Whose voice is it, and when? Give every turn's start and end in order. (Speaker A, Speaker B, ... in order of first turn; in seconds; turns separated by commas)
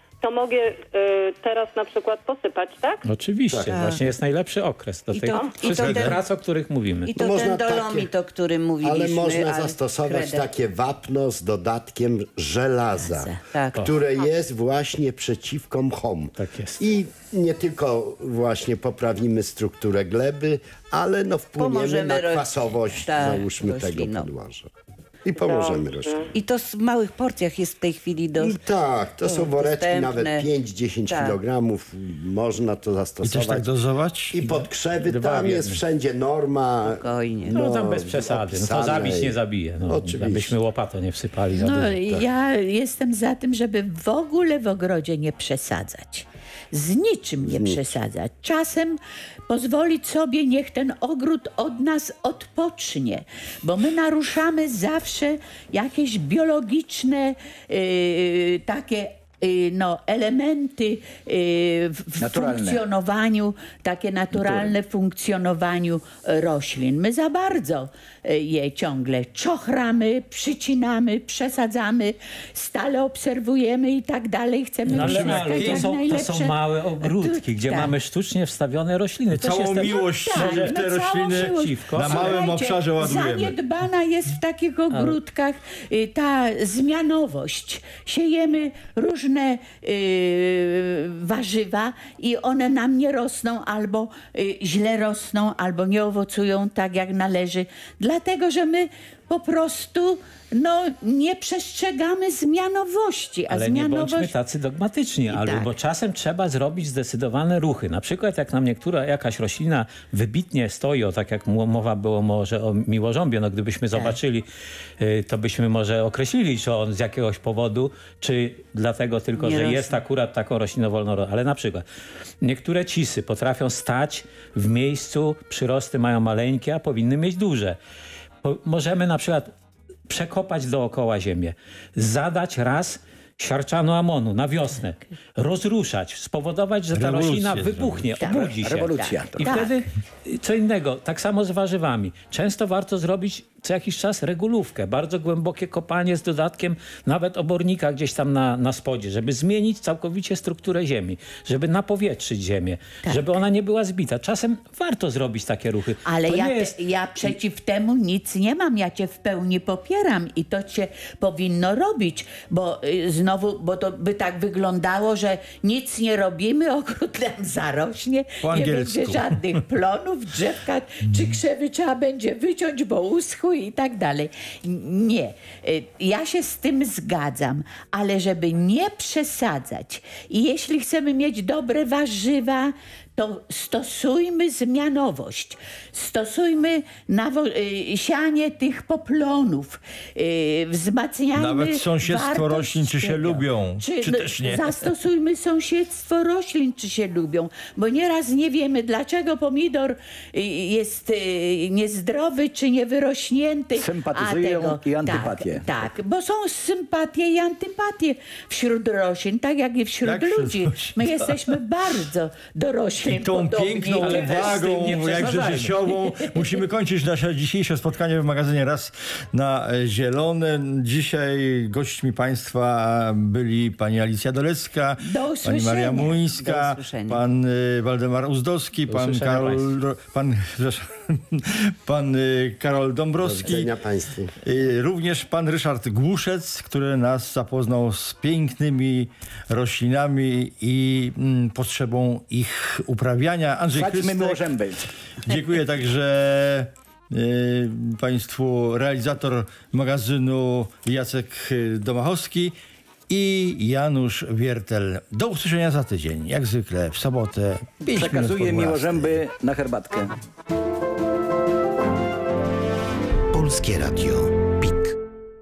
Speaker A: 0.2-3.0, Speaker B: 3.1-7.1, Speaker C: 3.6-4.0, Speaker C: 5.1-6.2, Speaker D: 5.8-6.2, Speaker C: 7.0-10.5, Speaker E: 7.2-8.1, Speaker E: 8.8-24.7, Speaker F: 13.1-13.4, Speaker C: 13.5-13.9, Speaker B: 16.4-16.8, Speaker C: 21.6-24.3, Speaker E: 25.3-26.2, Speaker A: 25.4-26.3, Speaker C: 26.3-28.6, Speaker E: 28.4-33.7, Speaker C: 29.2-30.4, Speaker C: 31.1-31.4, Speaker D: 33.2-34.7, Speaker E: 34.3-40.5, Speaker B: 35.1-35.8, Speaker C: 36.9-37.6, Speaker B: 37.5-42.0, Speaker F: 41.5-77.9, Speaker E: 47.5-47.9, Speaker G: 62.2-62.8, Speaker B: 74.9-80.8, Speaker D: 75.0-75.9, Speaker D: 79.3-83.6, Speaker F: 79.8-104.3, Speaker B: 81.3-82.4, Speaker B: 84.9-85.2, Speaker B: 103.5-114.5, Speaker F: 105.3-105.7, Speaker B: 115.0-121.8, Speaker F: 119.4-119.8, Speaker B: 122.4-127.8, Speaker B: 128.4-129.5, Speaker B: 130.1-157.3, Speaker D: 136.9-138.2, Speaker F: 138.2-139.8, Speaker G: 138.6-139.5, Speaker F: 153.0-153.4, Speaker F: 156.1-214.6, Speaker D: 168.4-169.6, Speaker D: 171.1-171.4, Speaker D: 191.4-194.9, Speaker G: 203.8-205.7, Speaker D: 210.0-211.5, Speaker D: 213.0-233.7, Speaker B: 214.0-215.8, Speaker F: 216.2-216.5, Speaker F: 225.0-226.3, Speaker C: 226.3-227.2, Speaker B: 228.9-229.7, Speaker E: 233.2-234.3, Speaker D: 234.4-244.5, Speaker G: 243.7-244.8, Speaker D: 245.3-252.6, Speaker D: 253.1-259.2, Speaker G: 257.9-260.1